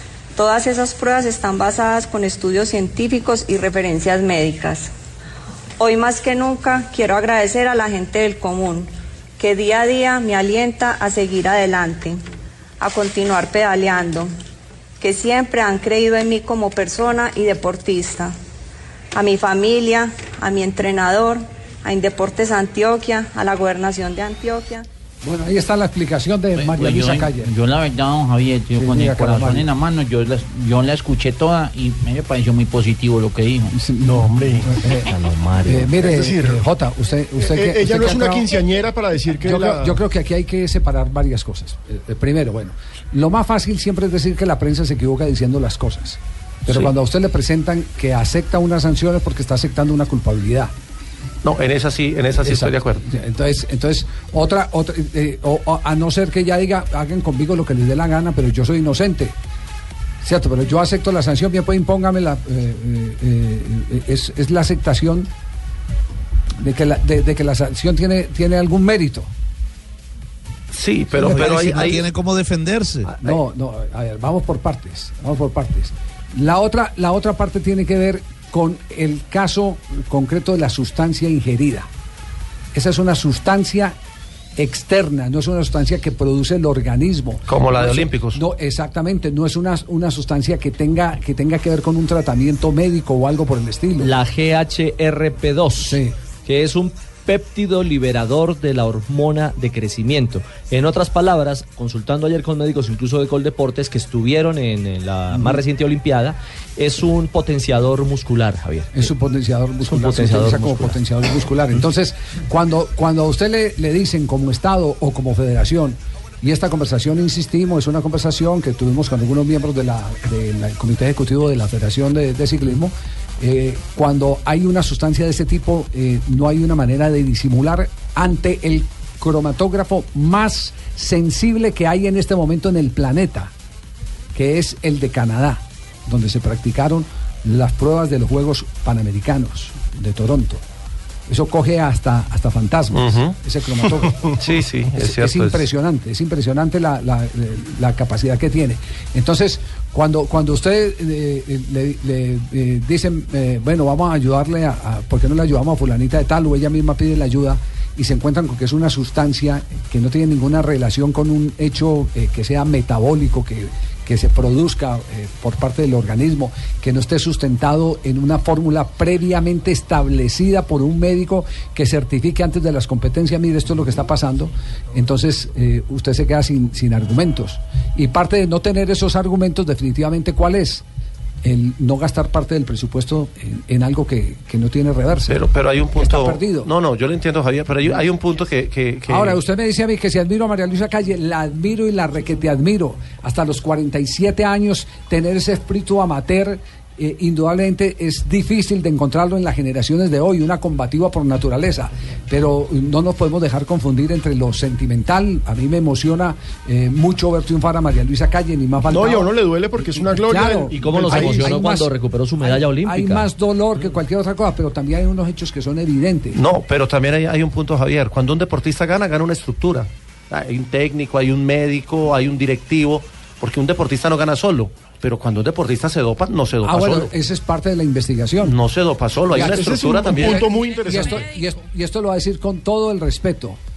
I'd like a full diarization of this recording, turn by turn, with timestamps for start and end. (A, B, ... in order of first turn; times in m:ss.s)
0:00.4-0:04.9 A
0:05.8-0:12.2 A
0:12.8-0:14.3 A
0:15.0-0:18.3 A
0:19.1-0:24.9 A
0:25.2-0:27.5 B
0:26.6-0:33.7 C
0:28.7-0:29.7 B
0:33.7-0:35.1 B
0:34.0-0:34.7 D
0:35.2-0:35.8 E
0:35.6-0:38.5 B
0:36.0-0:36.6 D
0:37.4-0:40.0 D
0:39.4-0:50.7 B
0:51.4-0:53.0 F
0:52.4-0:59.4 B
1:00.2-1:05.3 B
1:06.6-1:09.3 B
1:10.7-1:12.1 F
1:11.2-1:11.6 B
1:11.2-1:13.1 G
1:13.1-1:21.9 B
1:22.7-1:24.0 B
1:24.6-1:34.1 B
1:27.5-1:28.4 F
1:34.0-1:49.1 E
1:35.8-1:36.1 B
1:45.3-1:45.6 B
1:48.9-2:13.5 B
1:49.8-1:51.0 E
2:14.3-2:20.6 B
2:21.3-2:24.2 B
2:22.9-2:23.3 F
2:24.4-2:25.6 F
2:24.9-3:00.8 B
3:01.4-3:05.4 B
3:05.3-3:09.4 F
3:06.0-3:06.7 B
3:09.1-3:29.3 B
3:28.9-3:31.5 D
3:30.0-3:36.4 B
3:30.7-3:33.3 E
3:36.3-3:47.1 F
3:46.6-3:48.6 B
3:48.4-3:50.4 F
3:49.3-3:53.6 B
3:49.4-3:51.3 D